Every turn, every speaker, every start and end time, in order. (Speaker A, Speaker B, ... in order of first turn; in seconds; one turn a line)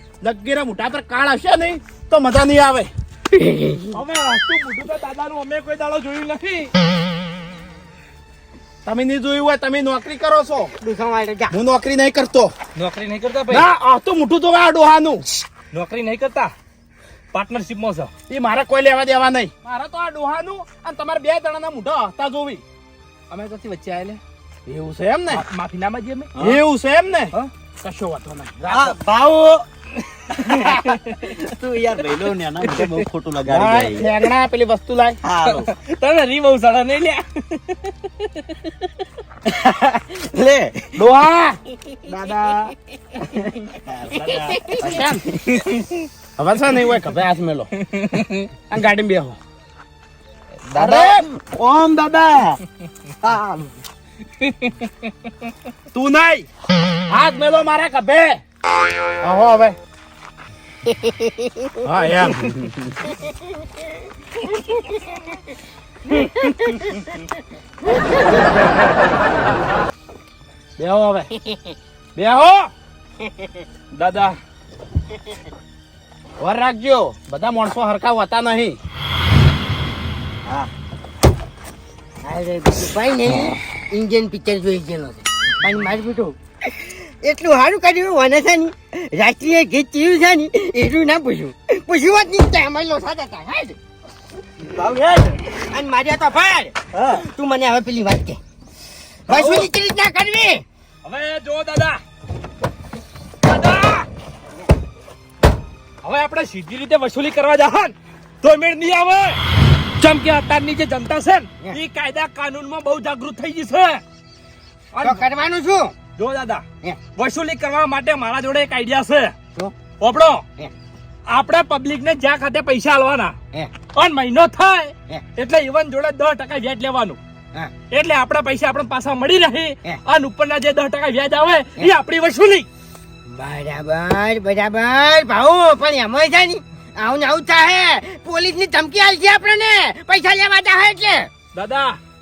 Speaker A: 0.2-2.9
Speaker B: 3.4-3.9
Speaker C: 3.9-6.7
Speaker A: 8.8-10.7
Speaker B: 10.8-11.5
Speaker A: 11.5-12.5
Speaker C: 12.8-13.7
Speaker A: 13.5-15.2
Speaker C: 15.7-16.5
Speaker C: 17.3-18.1
Speaker A: 18.3-22.6
Speaker C: 23.3-24.2
Speaker A: 24.7-25.4
Speaker C: 25.3-26.4
Speaker D: 26.4-26.6
Speaker A: 26.4-29.0
Speaker D: 28.6-29.6
Speaker D: 30.4-34.1
Speaker C: 30.8-31.4
Speaker A: 33.5-35.2
Speaker D: 35.2-35.7
Speaker C: 35.5-39.0
Speaker D: 39.5-41.0
Speaker A: 41.0-41.6
Speaker D: 42.1-42.7
Speaker D: 43.5-45.1
Speaker C: 44.2-44.6
Speaker A: 44.2-45.9
Speaker A: 46.4-49.4
Speaker D: 50.7-52.6
Speaker A: 50.8-51.3
Speaker D: 53.2-53.7
Speaker A: 55.9-56.5
Speaker A: 57.1-58.4
Speaker A: 59.2-59.8
Speaker B: 60.9-61.8
Speaker A: 61.9-63.0
Speaker B: 67.9-68.3
Speaker A: 70.8-71.3
Speaker B: 71.3-71.8
Speaker A: 72.2-72.7
Speaker B: 73.2-73.7
Speaker C: 73.9-74.4
Speaker A: 76.4-78.8
Speaker B: 82.2-93.8
Speaker D: 94.7-95.4
Speaker B: 95.7-98.4
Speaker D: 96.9-97.2
Speaker B: 99.3-100.7
Speaker C: 99.3-99.7
Speaker C: 101.0-102.0
Speaker C: 103.4-104.1
Speaker C: 106.0-109.4
Speaker C: 110.0-114.0
Speaker C: 114.9-115.2
Speaker B: 115.0-115.9
Speaker C: 116.2-116.7
Speaker C: 117.2-119.3
Speaker C: 120.0-120.4
Speaker C: 121.3-123.4
Speaker C: 123.9-127.2
Speaker C: 127.9-132.7
Speaker B: 133.3-141.3
Speaker C: 141.5-142.0